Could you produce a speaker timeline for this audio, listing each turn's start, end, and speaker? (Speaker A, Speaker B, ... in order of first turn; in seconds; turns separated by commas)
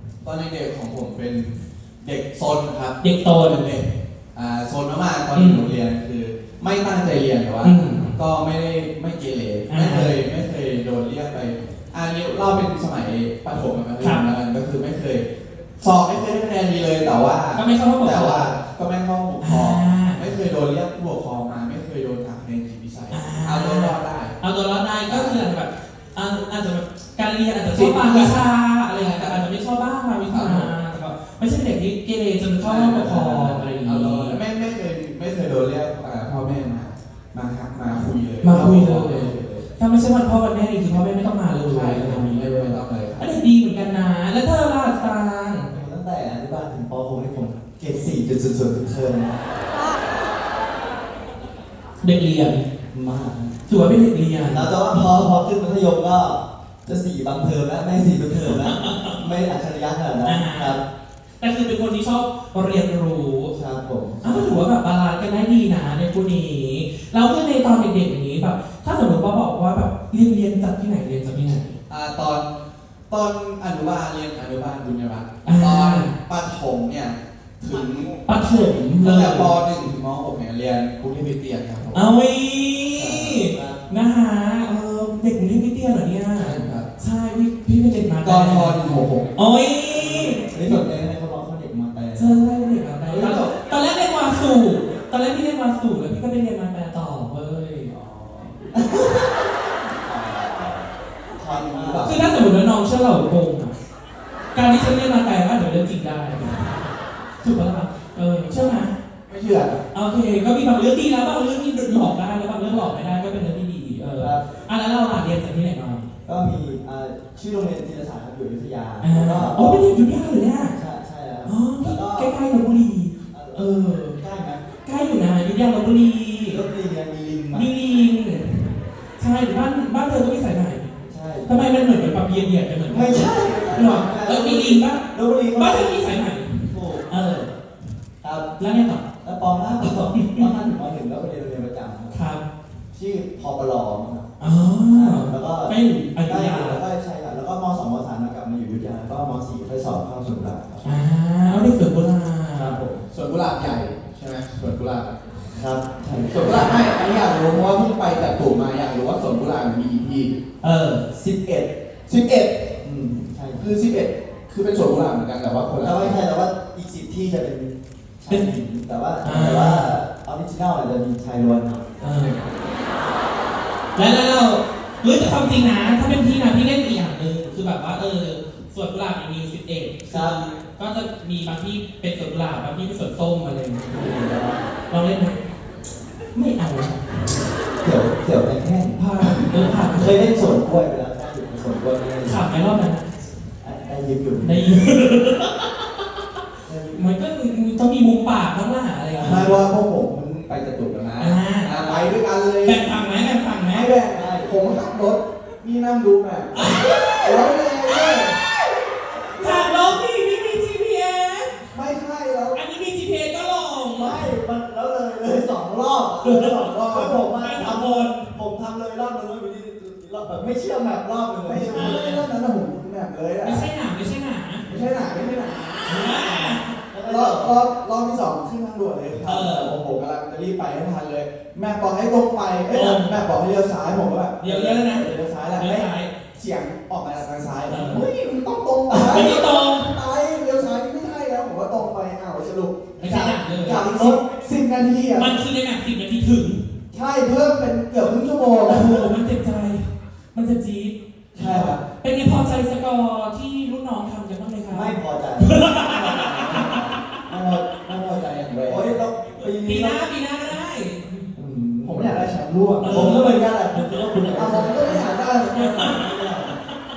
Speaker A: 0.2-15.2, Speaker B: 3.0-3.8, Speaker B: 5.3-5.7, Speaker B: 7.6-8.2, Speaker B: 9.7-10.2, Speaker B: 14.0-14.2, Speaker A: 15.8-24.4, Speaker B: 17.5-18.5, Speaker B: 19.4-20.2, Speaker B: 23.1-34.4, Speaker A: 25.1-25.4, Speaker A: 27.7-28.4, Speaker A: 28.9-29.5, Speaker A: 30.2-30.7, Speaker A: 32.6-39.6, Speaker B: 38.4-45.7, Speaker A: 41.6-43.4, Speaker C: 45.7-49.4, Speaker B: 52.0-52.6, Speaker C: 52.9-53.6, Speaker B: 53.7-54.7, Speaker C: 54.5-60.8, Speaker B: 58.5-59.2, Speaker B: 60.2-60.8, Speaker B: 61.4-63.5, Speaker C: 63.5-64.6, Speaker B: 64.2-71.8, Speaker A: 71.9-72.5, Speaker A: 73.1-78.2, Speaker B: 75.4-76.1, Speaker C: 77.7-78.3, Speaker B: 78.3-79.5, Speaker A: 79.0-82.0, Speaker B: 81.9-90.8, Speaker A: 82.9-83.5, Speaker C: 83.4-83.9, Speaker A: 86.4-86.9, Speaker A: 88.2-89.3, Speaker C: 89.9-92.4, Speaker B: 92.1-97.9, Speaker A: 93.1-93.5, Speaker C: 97.9-99.4, Speaker C: 100.0-102.2, Speaker A: 101.4-102.2, Speaker B: 102.0-103.7, Speaker B: 104.5-109.0, Speaker A: 109.3-109.8, Speaker B: 109.9-116.1, Speaker C: 114.2-114.5, Speaker C: 116.2-119.9, Speaker B: 119.0-120.8, Speaker C: 120.7-122.3, Speaker B: 121.5-124.2, Speaker C: 123.3-124.7, Speaker B: 124.8-126.6, Speaker C: 126.5-127.7, Speaker B: 127.5-137.5, Speaker C: 131.1-131.8, Speaker C: 132.9-136.0, Speaker C: 136.7-137.1, Speaker C: 138.2-138.5, Speaker B: 138.6-139.0, Speaker C: 139.2-142.2, Speaker B: 140.1-140.7, Speaker B: 142.1-142.4, Speaker C: 142.9-145.7, Speaker B: 144.4-146.8, Speaker C: 146.2-150.9, Speaker B: 150.8-152.8, Speaker C: 152.5-153.1, Speaker A: 153.1-155.1, Speaker C: 155.5-156.9, Speaker A: 156.3-160.3, Speaker B: 160.6-161.0, Speaker C: 161.1-163.7, Speaker A: 163.6-166.2, Speaker C: 165.8-171.8, Speaker B: 169.2-169.9, Speaker B: 172.0-172.5, Speaker B: 173.9-184.3, Speaker C: 180.1-180.4, Speaker C: 183.9-184.6, Speaker B: 184.9-185.4, Speaker B: 186.3-187.0, Speaker C: 187.8-192.4, Speaker B: 188.9-190.3, Speaker B: 192.2-193.1, Speaker C: 193.6-194.9, Speaker B: 194.4-195.8, Speaker C: 196.7-197.0, Speaker B: 196.9-199.6, Speaker A: 199.2-203.1, Speaker B: 201.2-202.1, Speaker B: 202.6-203.9, Speaker A: 203.7-208.4, Speaker C: 204.1-204.5, Speaker B: 206.5-211.6, Speaker A: 209.4-209.9, Speaker A: 211.7-212.6, Speaker B: 212.5-214.3, Speaker C: 213.9-222.0, Speaker B: 216.2-216.7, Speaker A: 216.4-217.2, Speaker B: 217.3-218.3, Speaker A: 221.4-223.7, Speaker B: 221.7-222.2, Speaker B: 223.4-224.7, Speaker A: 224.7-245.4, Speaker B: 225.8-226.7, Speaker C: 226.9-227.6, Speaker B: 229.2-229.8, Speaker B: 232.7-233.2, Speaker B: 234.4-236.1, Speaker B: 237.7-238.1, Speaker C: 238.9-239.4, Speaker B: 239.0-240.0, Speaker B: 243.0-243.9, Speaker C: 243.8-244.2, Speaker B: 245.1-246.7, Speaker A: 246.9-249.1, Speaker B: 248.6-256.8, Speaker A: 251.3-251.8, Speaker C: 254.7-255.6, Speaker A: 255.6-258.9, Speaker C: 256.6-257.0, Speaker C: 258.6-260.1, Speaker B: 259.4-261.3, Speaker C: 261.4-266.5, Speaker A: 261.8-263.2, Speaker B: 262.8-264.2, Speaker A: 264.3-266.0, Speaker B: 265.5-266.7